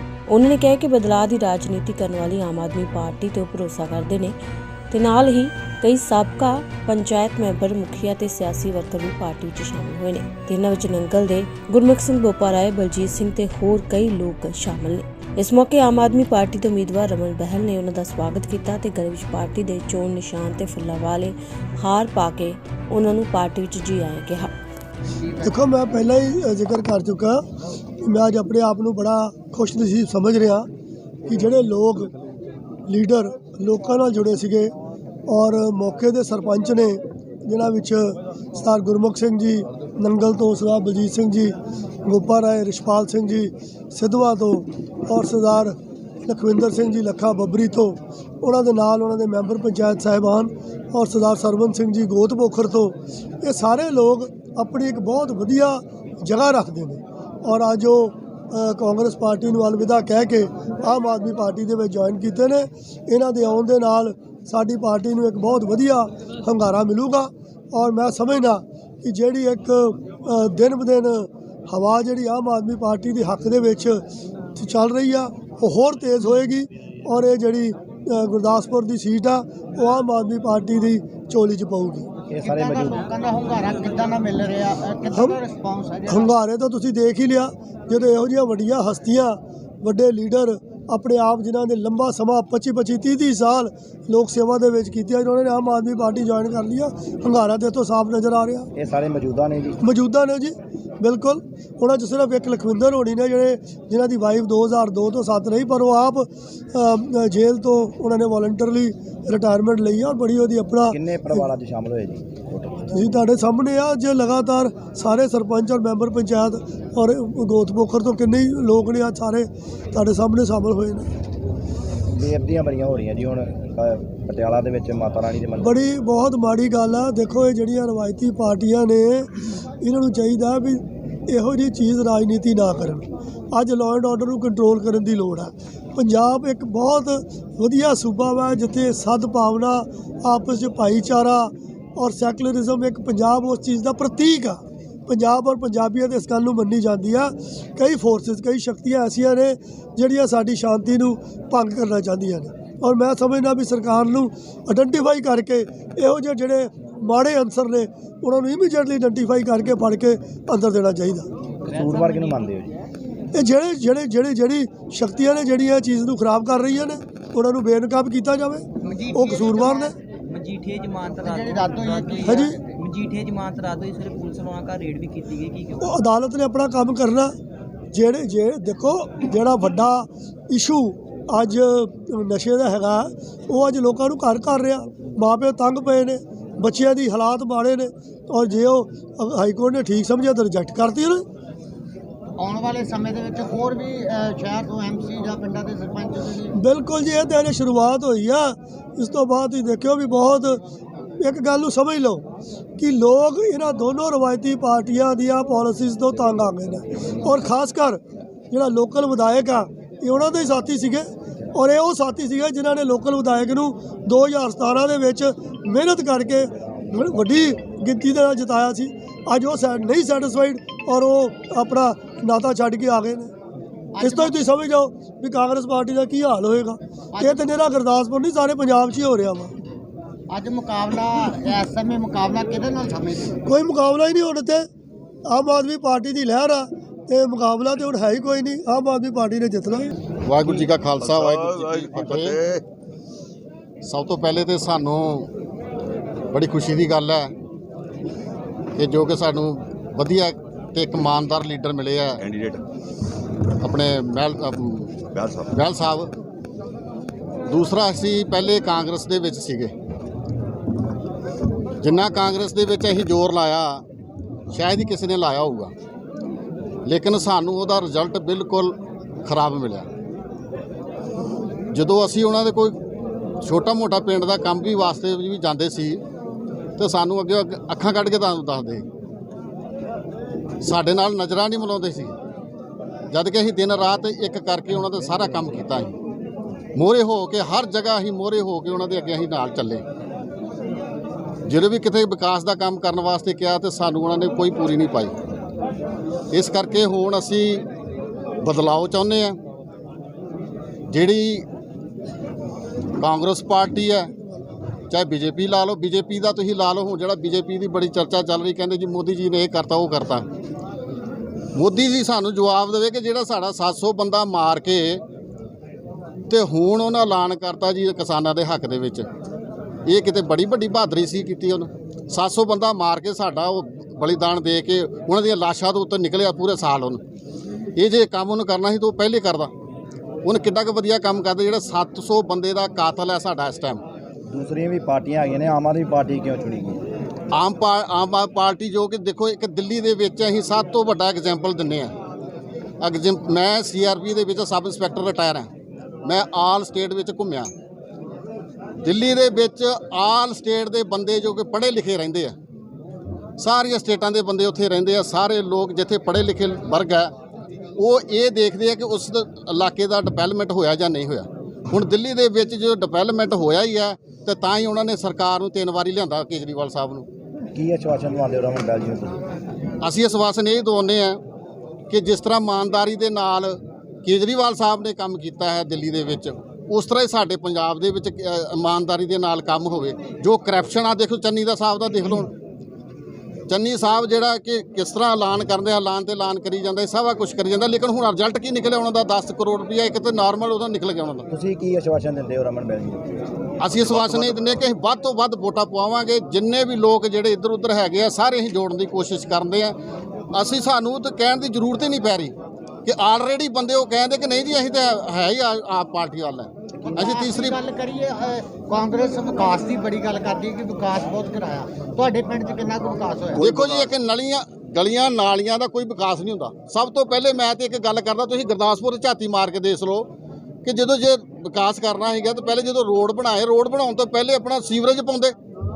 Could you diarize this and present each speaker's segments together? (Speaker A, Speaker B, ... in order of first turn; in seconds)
Speaker A: 0.3-4.3, 4.9-24.5
Speaker B: 25.1-25.6, 82.4-86.3, 161.7-162.4, 168.8-169.9, 171.2-172.8, 192.4-196.6, 223.9-224.4, 227.1-227.4, 230.3-233.4, 406.9-413.5
Speaker C: 25.4-27.4, 28.0-30.7, 31.2-32.1, 32.9-34.7, 35.3-74.0, 74.5-82.1, 85.1-85.3, 86.1-98.7, 99.8-111.5, 112.9-121.1, 125.6-129.3, 129.8-161.3, 163.3-169.9, 172.2-172.6, 175.8-177.3, 177.9-191.2, 196.5-200.6, 201.2-202.2, 202.8-223.3, 224.0-229.5, 233.4-234.7, 235.2-239.9
Speaker D: 82.3-83.1, 98.8-99.8, 110.9-113.1, 122.1-125.8, 161.6-162.8, 216.8-217.4, 334.3-336.9, 367.5-369.2, 391.3-394.5
Speaker E: 170.3-176.0
Speaker F: 240.2-242.4, 243.8-245.3, 246.3-247.3, 248.8-252.2, 253.6-256.1, 257.5-259.7, 261.8-263.8, 264.5-265.7, 266.8-269.9, 271.7-272.8, 273.4-276.0, 276.8-278.8, 280.6-282.1, 283.1-285.9, 286.7-289.8, 291.4-295.1, 296.3-297.6, 298.4-299.4, 300.9-301.4, 303.0-304.1, 304.9-310.2, 311.5-315.0, 316.3-319.1, 319.9-327.0, 327.8-329.5, 330.2-333.8, 337.3-341.9, 342.8-345.5, 346.0-347.5, 348.8-352.3, 353.4-357.1, 357.8-367.1, 369.8-371.2, 371.9-382.3, 383.5-391.3, 393.6-399.8, 400.3-407.6, 413.4-420.1, 420.6-425.4
Speaker G: 240.5-242.6, 252.2-252.6, 255.1-255.5, 413.4-413.9